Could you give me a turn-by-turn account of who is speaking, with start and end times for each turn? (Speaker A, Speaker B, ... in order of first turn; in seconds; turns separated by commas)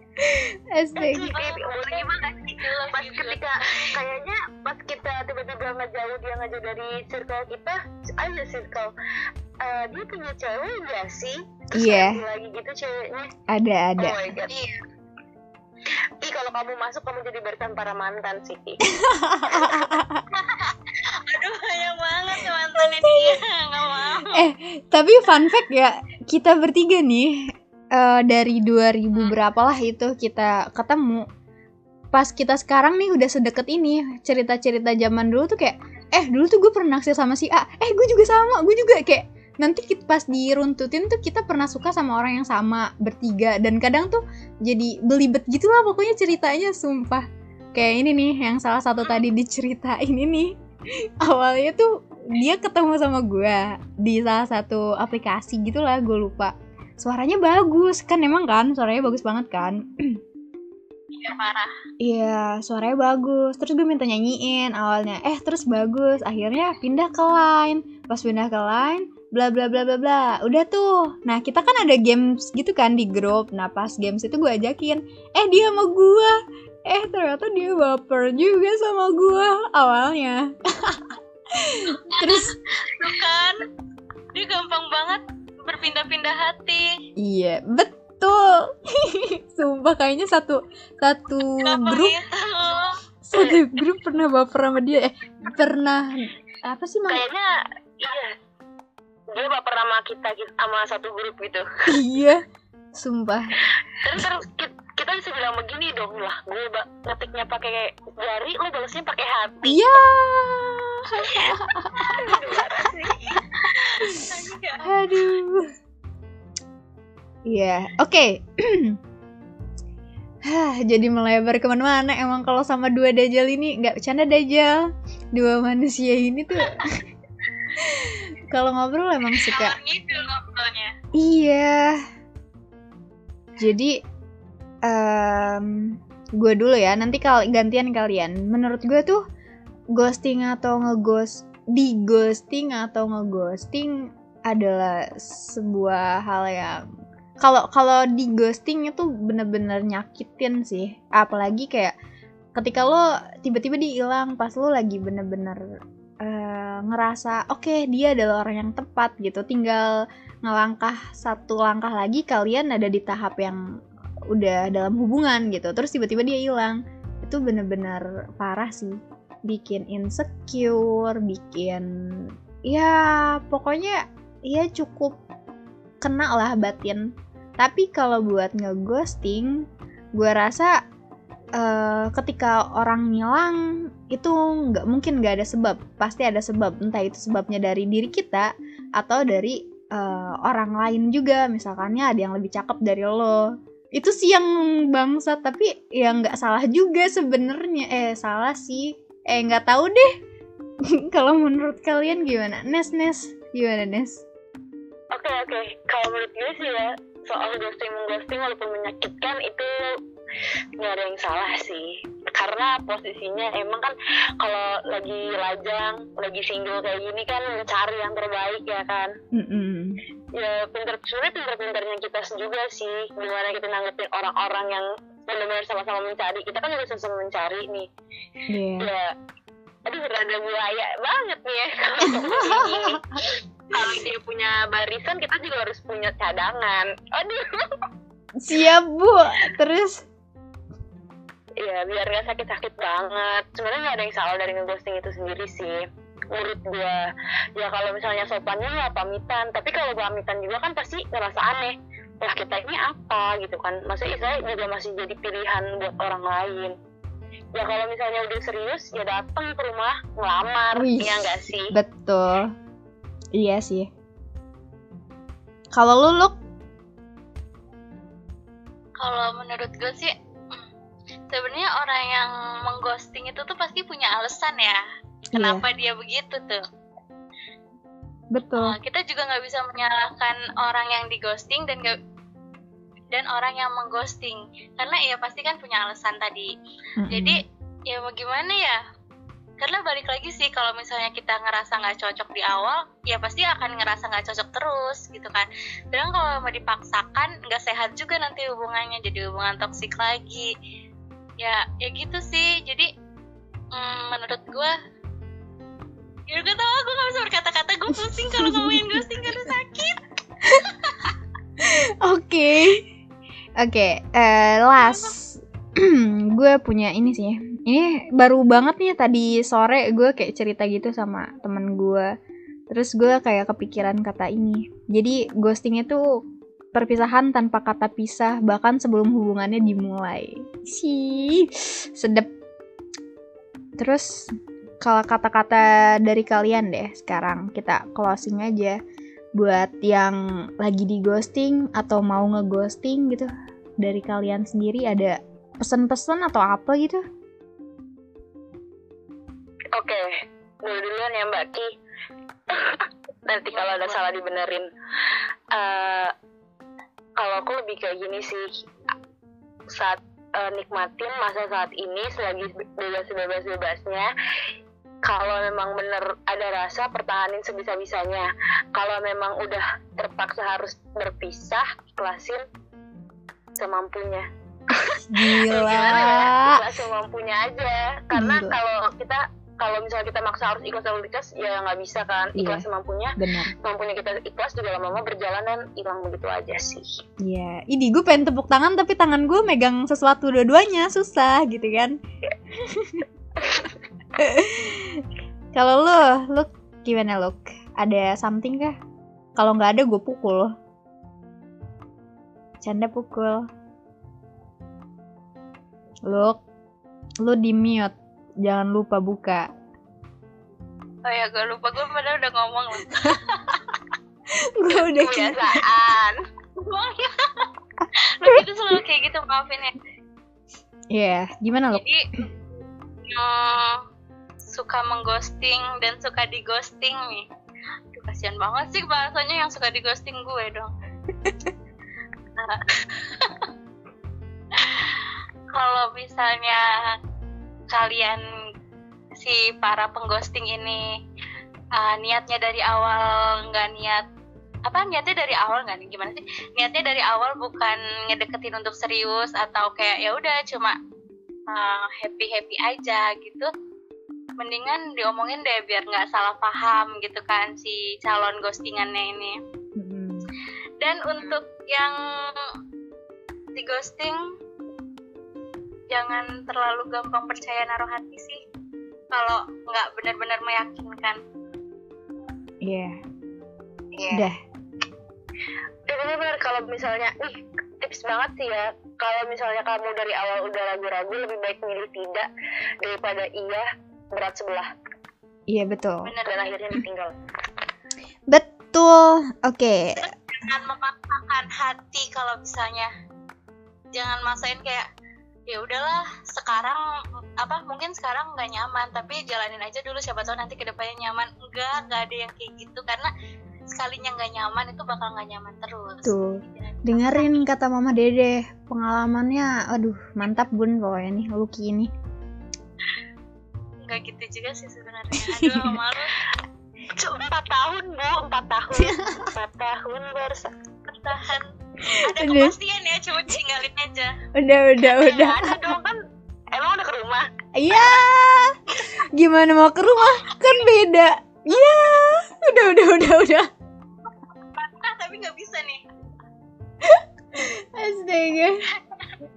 Speaker A: 0.2-1.3, Speaker B: 1.0-8.9, Speaker C: 1.1-4.0, Speaker B: 9.6-13.3, Speaker A: 11.7-12.2, Speaker A: 13.5-14.3, Speaker B: 14.0-14.5, Speaker C: 14.5-14.8, Speaker B: 16.2-18.8, Speaker A: 18.9-20.2, Speaker C: 20.3-24.5, Speaker A: 22.7-23.4, Speaker A: 24.3-31.2, Speaker A: 32.1-50.5, Speaker A: 51.0-60.2, Speaker C: 61.1-61.7, Speaker A: 62.0-82.5, Speaker C: 82.1-83.6, Speaker C: 84.3-87.0, Speaker A: 87.2-92.1, Speaker C: 91.6-93.0, Speaker A: 93.2-97.2, Speaker B: 97.1-98.3, Speaker B: 99.3-101.7, Speaker A: 101.9-102.4, Speaker A: 102.9-103.5, Speaker B: 103.9-109.8, Speaker A: 109.6-112.6, Speaker C: 111.3-112.0, Speaker B: 112.1-113.2, Speaker C: 113.3-115.0, Speaker A: 114.8-115.7, Speaker A: 117.5-119.0, Speaker A: 120.4-127.0, Speaker A: 127.8-129.8, Speaker C: 129.3-130.9, Speaker A: 131.1-132.0, Speaker A: 133.6-134.0, Speaker A: 134.8-139.2, Speaker A: 139.9-146.8, Speaker A: 147.4-151.9, Speaker A: 152.5-155.6, Speaker A: 156.2-159.9, Speaker A: 160.4-163.6, Speaker A: 164.3-175.2, Speaker A: 176.0-179.6, Speaker A: 180.2-180.8, Speaker A: 181.6-193.4, Speaker A: 193.9-200.1, Speaker A: 200.9-204.2, Speaker B: 205.1-209.7, Speaker B: 210.8-219.1, Speaker A: 219.3-220.0, Speaker B: 220.3-227.9, Speaker A: 228.5-228.9, Speaker B: 228.8-229.1, Speaker B: 229.8-237.8, Speaker A: 232.0-233.2, Speaker A: 233.7-234.0, Speaker A: 238.4-240.0, Speaker B: 241.6-256.8, Speaker B: 257.5-261.7, Speaker A: 260.7-262.5, Speaker A: 263.3-263.9, Speaker A: 265.7-266.3, Speaker C: 269.0-270.6, Speaker C: 271.3-274.8, Speaker C: 275.3-276.6, Speaker A: 275.3-275.6, Speaker A: 278.3-278.7, Speaker C: 278.6-282.0, Speaker C: 283.1-286.5, Speaker A: 287.0-287.4, Speaker C: 287.1-288.8, Speaker C: 289.6-300.5, Speaker C: 301.4-302.9, Speaker C: 303.7-304.7, Speaker C: 306.3-311.1, Speaker A: 308.4-309.3, Speaker A: 311.6-312.8, Speaker A: 313.6-322.1, Speaker C: 314.8-315.1, Speaker A: 322.7-326.0, Speaker A: 326.7-332.3, Speaker A: 333.8-338.8, Speaker A: 339.4-343.3, Speaker A: 343.8-347.0, Speaker B: 349.7-351.7, Speaker B: 352.5-354.7, Speaker C: 353.5-354.0, Speaker B: 355.5-356.1, Speaker B: 357.2-358.6, Speaker B: 359.7-364.1, Speaker B: 365.0-372.4, Speaker B: 373.6-387.0, Speaker A: 374.7-376.6, Speaker A: 378.1-378.6, Speaker A: 382.4-382.6, Speaker A: 383.2-383.5, Speaker A: 387.2-391.9, Speaker A: 392.6-393.0, Speaker B: 393.4-393.7, Speaker A: 394.2-398.8, Speaker A: 399.4-400.5, Speaker A: 402.6-403.5, Speaker A: 406.1-406.4, Speaker A: 407.2-409.5, Speaker C: 411.0-413.6, Speaker A: 414.3-415.6, Speaker B: 414.9-416.2, Speaker C: 416.6-419.8, Speaker A: 420.9-421.8, Speaker C: 421.7-422.0, Speaker C: 423.0-423.8, Speaker C: 424.5-427.3, Speaker C: 427.9-430.7, Speaker C: 432.4-433.5, Speaker C: 434.5-436.6, Speaker C: 437.7-438.2, Speaker C: 439.2-440.9, Speaker C: 441.8-444.0, Speaker C: 444.6-450.8, Speaker C: 451.5-453.5, Speaker C: 454.4-459.4, Speaker A: 459.8-460.3, Speaker C: 460.8-462.6, Speaker C: 463.6-464.2, Speaker C: 465.9-468.4, Speaker C: 469.1-471.2, Speaker A: 472.6-472.9, Speaker C: 473.9-474.3, Speaker B: 475.9-482.3, Speaker B: 482.8-484.7, Speaker A: 485.5-486.1, Speaker C: 486.0-486.5, Speaker B: 486.2-487.2, Speaker A: 488.3-490.0, Speaker C: 489.9-492.9, Speaker C: 493.9-494.9, Speaker C: 495.5-496.8, Speaker C: 497.4-503.1, Speaker C: 503.7-507.4, Speaker A: 506.0-511.9, Speaker C: 513.8-516.2, Speaker A: 515.1-515.8, Speaker B: 516.9-520.5, Speaker A: 518.8-519.3, Speaker C: 520.9-524.1, Speaker A: 521.8-522.5, Speaker A: 524.3-525.7, Speaker B: 524.8-526.0, Speaker B: 526.5-527.3, Speaker A: 527.5-533.5, Speaker C: 534.5-535.8, Speaker A: 536.8-538.6, Speaker C: 538.8-539.1